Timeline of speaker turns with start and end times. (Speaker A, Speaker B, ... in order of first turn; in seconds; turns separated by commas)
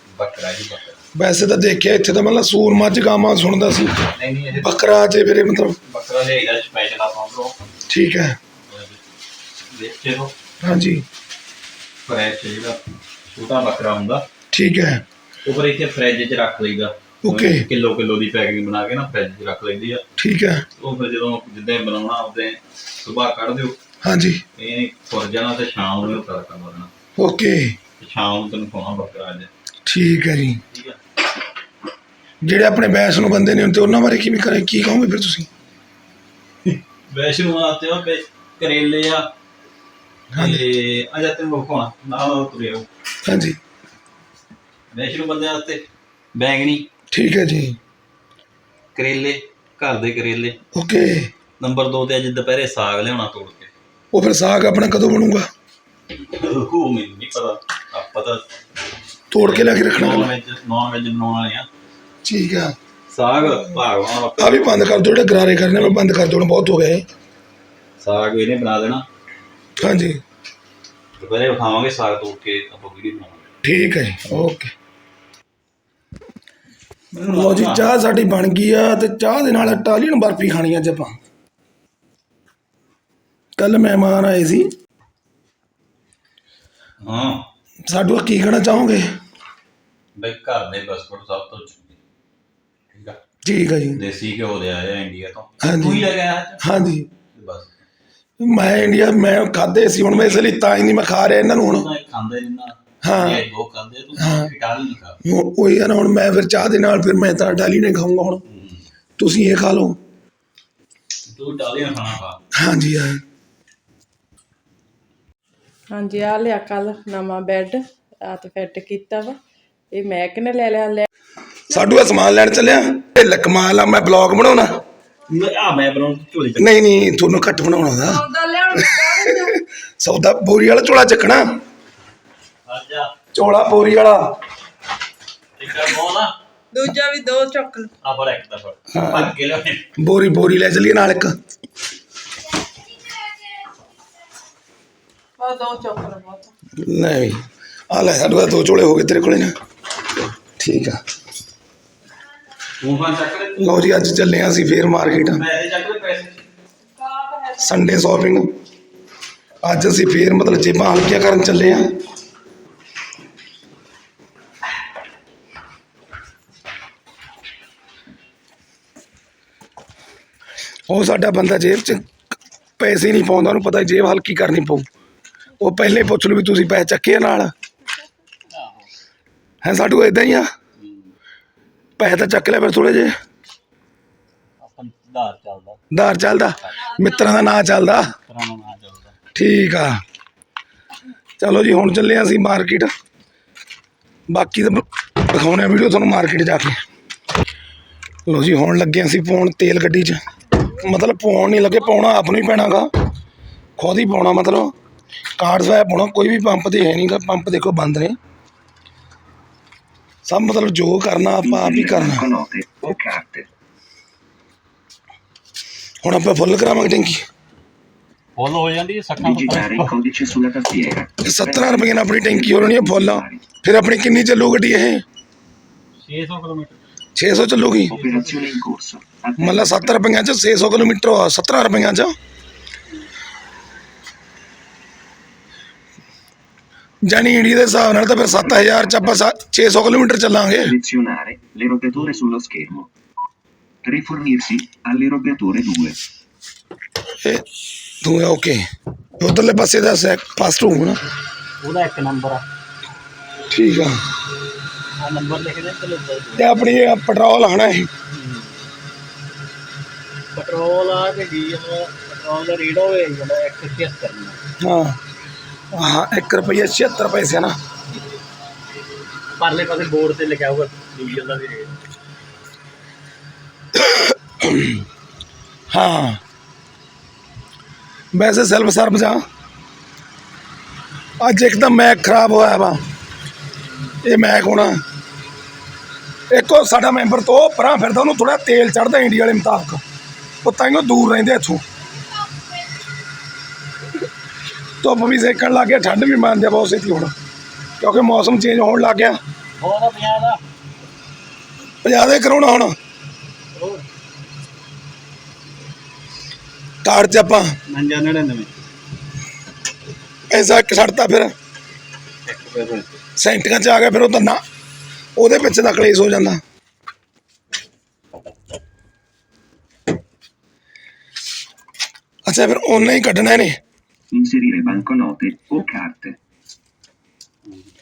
Speaker A: 0.1-1.0, Speaker B: 1.1-5.8, Speaker A: 4.1-5.0, Speaker A: 5.9-7.5, Speaker B: 7.9-8.4, Speaker A: 8.7-9.0, Speaker A: 9.7-10.3, Speaker B: 10.6-11.0, Speaker A: 12.1-14.3, Speaker B: 14.5-15.0, Speaker A: 15.4-20.0, Speaker B: 17.2-17.7, Speaker B: 20.2-20.6, Speaker A: 20.8-23.8, Speaker B: 24.0-24.4, Speaker A: 24.6-26.9, Speaker B: 27.2-27.8, Speaker A: 28.0-29.5, Speaker B: 29.9-30.6, Speaker A: 30.7-31.0, Speaker B: 32.4-35.5, Speaker A: 36.6-39.3, Speaker B: 40.3-40.6, Speaker A: 40.3-42.9, Speaker B: 43.2-43.6, Speaker A: 44.9-46.9, Speaker B: 47.1-47.8, Speaker A: 49.0-50.6, Speaker B: 50.7-51.3, Speaker A: 51.6-53.7, Speaker B: 54.1-55.5, Speaker A: 56.3-58.4, Speaker B: 59.3-60.3, Speaker A: 59.3-61.7, Speaker B: 62.2-62.8, Speaker A: 63.1-65.9, Speaker B: 64.4-67.0, Speaker A: 68.0-69.1, Speaker B: 69.8-70.2, Speaker A: 71.2-73.5, Speaker B: 73.6-74.7, Speaker A: 77.1-77.9, Speaker B: 77.3-81.2, Speaker B: 83.6-84.7, Speaker A: 87.0-87.5, Speaker B: 87.9-89.1, Speaker A: 90.2-92.0, Speaker A: 92.9-93.2, Speaker B: 93.5-94.0, Speaker A: 94.0-96.6, Speaker B: 95.6-96.1, Speaker B: 96.6-97.1, Speaker A: 97.3-97.7, Speaker B: 98.4-101.9, Speaker A: 100.1-100.5, Speaker A: 101.6-105.2, Speaker B: 103.0-103.5, Speaker B: 104.2-104.5, Speaker B: 105.2-108.4, Speaker A: 108.5-108.8, Speaker B: 109.2-110.0, Speaker A: 111.3-112.4, Speaker B: 112.5-113.2, Speaker C: 115.9-119.4, Speaker C: 119.9-121.1, Speaker C: 121.7-122.0, Speaker B: 121.7-124.8, Speaker A: 125.3-126.8, Speaker B: 126.6-128.2, Speaker C: 128.0-129.6, Speaker B: 128.8-131.6, Speaker A: 132.7-133.1, Speaker B: 133.3-134.3, Speaker A: 135.6-136.3, Speaker C: 136.7-137.9, Speaker A: 138.0-139.8, Speaker B: 138.9-139.3, Speaker B: 140.0-141.4, Speaker C: 145.4-146.5, Speaker B: 146.8-149.5, Speaker B: 150.6-151.0, Speaker A: 152.8-153.9, Speaker B: 153.6-155.5, Speaker A: 155.2-156.4, Speaker C: 157.1-157.6, Speaker B: 157.6-158.5, Speaker B: 159.6-161.9, Speaker B: 170.9-172.1, Speaker B: 172.8-174.8, Speaker B: 175.6-177.5, Speaker A: 178.5-178.9, Speaker B: 179.6-180.5, Speaker A: 180.8-181.2, Speaker B: 182.0-183.1, Speaker A: 184.6-185.8, Speaker B: 185.9-188.1, Speaker A: 186.6-187.0, Speaker A: 188.3-189.2, Speaker B: 189.3-190.0, Speaker B: 191.4-192.9, Speaker B: 194.3-196.8, Speaker B: 198.3-200.2, Speaker B: 200.8-202.9, Speaker B: 203.8-204.7, Speaker B: 205.4-208.2, Speaker B: 210.2-212.3, Speaker D: 211.4-213.5, Speaker B: 216.0-217.2, Speaker A: 218.4-220.0, Speaker D: 219.2-223.4, Speaker B: 221.2-225.0, Speaker A: 226.0-226.8, Speaker B: 227.2-228.0, Speaker A: 227.9-228.6, Speaker D: 227.9-229.9, Speaker B: 229.4-232.2, Speaker B: 237.1-240.7, Speaker D: 238.4-239.1, Speaker D: 240.6-242.9, Speaker A: 241.9-242.3, Speaker D: 243.8-246.0, Speaker B: 247.2-247.4, Speaker B: 248.0-248.6, Speaker B: 249.2-251.0, Speaker A: 251.6-252.4, Speaker B: 253.5-254.0, Speaker A: 255.0-256.7, Speaker B: 256.4-257.9, Speaker A: 258.1-258.7, Speaker A: 260.3-264.4, Speaker B: 264.6-265.0, Speaker B: 265.7-267.5, Speaker A: 269.4-271.8, Speaker B: 273.8-274.8, Speaker B: 275.7-276.2, Speaker B: 278.1-279.2, Speaker B: 281.2-282.8, Speaker B: 284.0-284.8, Speaker B: 286.3-289.8, Speaker B: 290.4-291.6, Speaker B: 294.8-297.1, Speaker B: 297.8-299.2, Speaker A: 299.6-300.4, Speaker B: 301.8-302.8, Speaker A: 303.6-303.9, Speaker B: 306.8-307.6, Speaker A: 307.7-308.6, Speaker B: 310.3-311.3, Speaker A: 312.2-313.0, Speaker B: 313.2-314.4, Speaker B: 315.2-316.4, Speaker B: 322.3-323.6, Speaker D: 324.1-326.2